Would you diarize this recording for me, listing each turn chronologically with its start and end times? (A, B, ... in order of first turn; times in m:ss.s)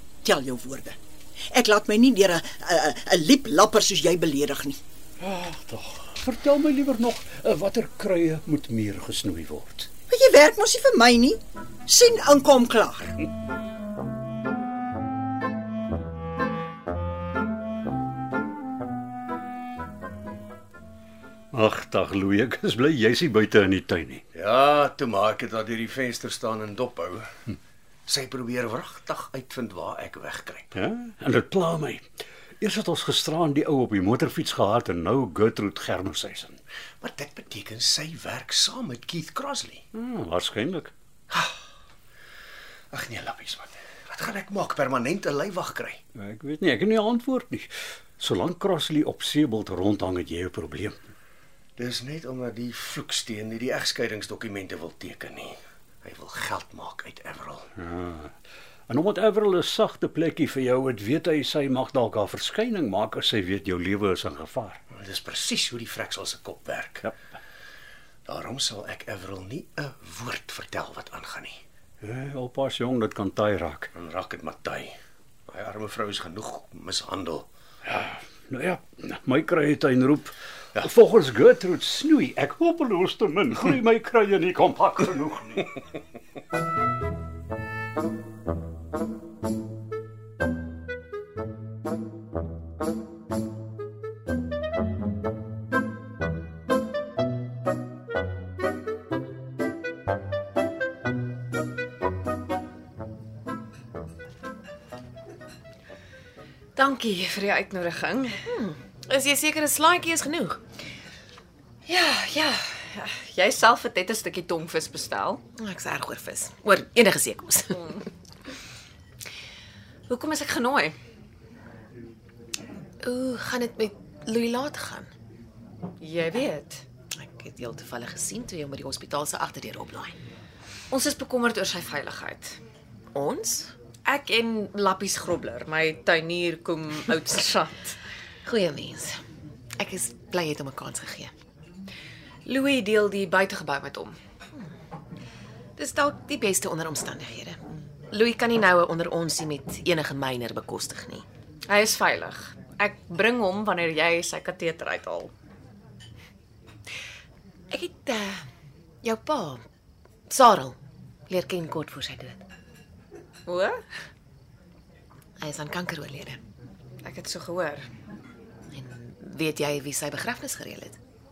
0:00.2-0:01.0 A
0:01.5-0:04.8 A
0:05.2-0:09.9 B
0:10.1-0:13.1 A
0:21.5-0:24.2 B
0:24.3-0:27.3 C
0:28.1-0:30.8 C
0:30.7-0:32.1 B
0:32.6-0:36.6 B
0:37.0-0:39.8 C
0:39.9-0:40.9 B
0:41.3-0:41.6 C
0:42.9-0:46.0 C
0:46.1-0:51.1 B
0:51.8-0:57.7 C
0:57.8-0:58.3 B
0:58.9-1:04.8 B
1:04.9-1:07.1 C
1:08.2-1:11.6 C
1:12.0-1:13.9 B
1:13.9-1:15.0 C
1:15.5-1:17.5 C
1:17.9-1:25.7 B
1:46.8-1:48.5 D
1:48.4-1:50.6 E
1:51.9-1:55.4 D
1:55.6-1:58.0 E
2:00.1-2:01.0 D
2:03.0-2:05.1 E
2:06.0-2:06.8 D
2:07.1-2:10.2 E
2:10.9-2:12.6 D
2:13.1-2:13.7 E
2:14.0-2:18.0 D
2:18.4-2:19.2 E
2:19.8-2:21.3 E
2:22.4-2:24.2 D
2:25.8-2:31.2 E
2:31.7-2:35.3 D
2:37.7-2:38.4 E
2:39.0-2:39.6 E
2:40.3-2:40.8 E
2:41.3-2:42.4 E
2:43.4-2:43.8 D
2:45.4-2:46.4 E
2:47.0-2:47.9 D
2:48.7-2:51.0 E